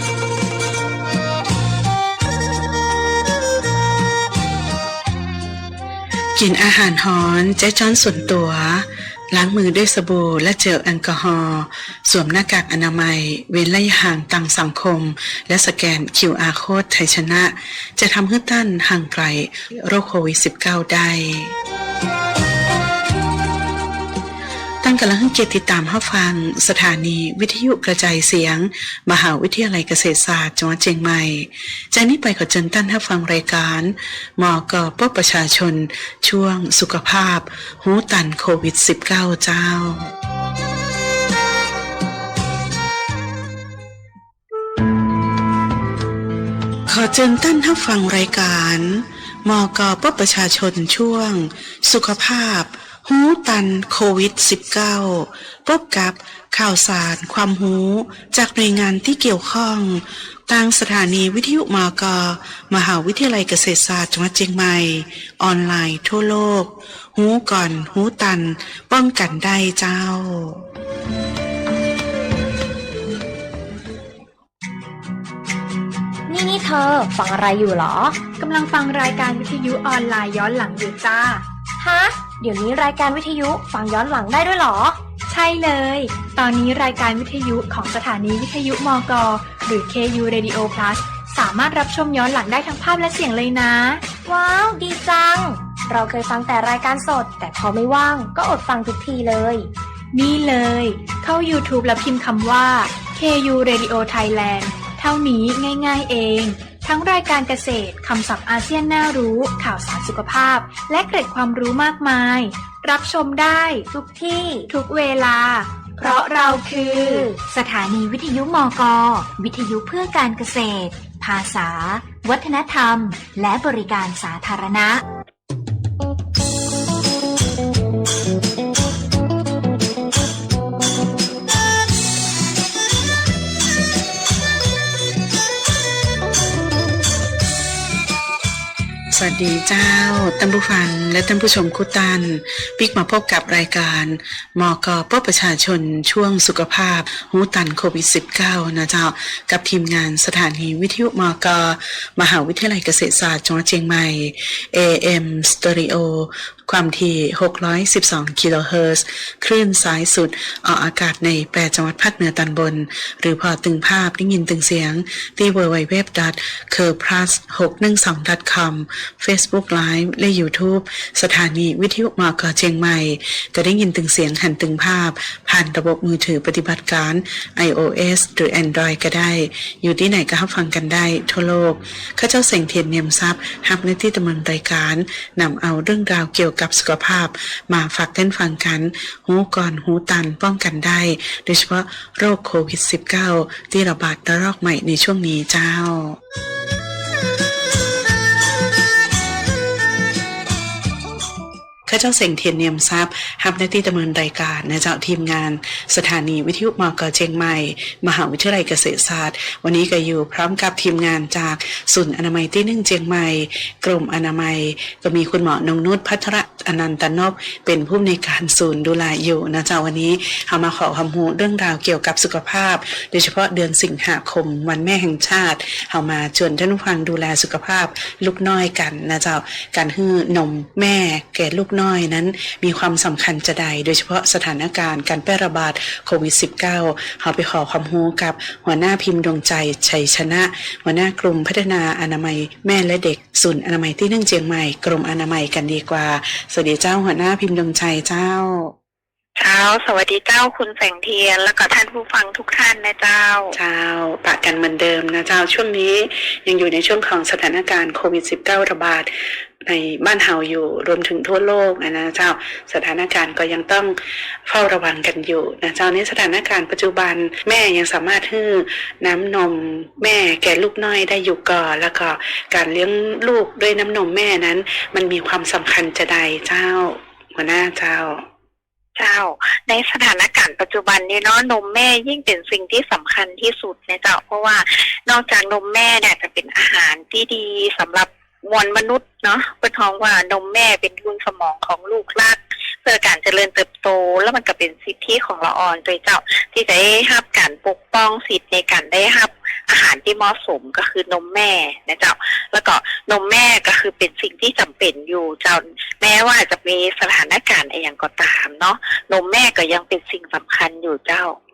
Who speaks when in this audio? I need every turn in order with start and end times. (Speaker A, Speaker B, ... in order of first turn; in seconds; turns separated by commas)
Speaker A: 6.3-21.6, Speaker A: 24.8-40.1, Speaker A: 46.9-70.6, Speaker B: 76.3-78.2, Speaker C: 78.4-81.4, Speaker B: 81.8-85.0, Speaker C: 85.3-94.0, Speaker B: 94.3-99.7, Speaker C: 100.1-113.9, Speaker B: 113.9-114.7, Speaker C: 114.7-117.3, Speaker B: 116.8-117.4, Speaker D: 117.4-125.0, Speaker A: 139.1-196.2, Speaker A: 201.9-248.8, Speaker E: 249.4-253.6, Speaker A: 253.5-259.1, Speaker A: 259.6-278.3, Speaker E: 279.0-311.4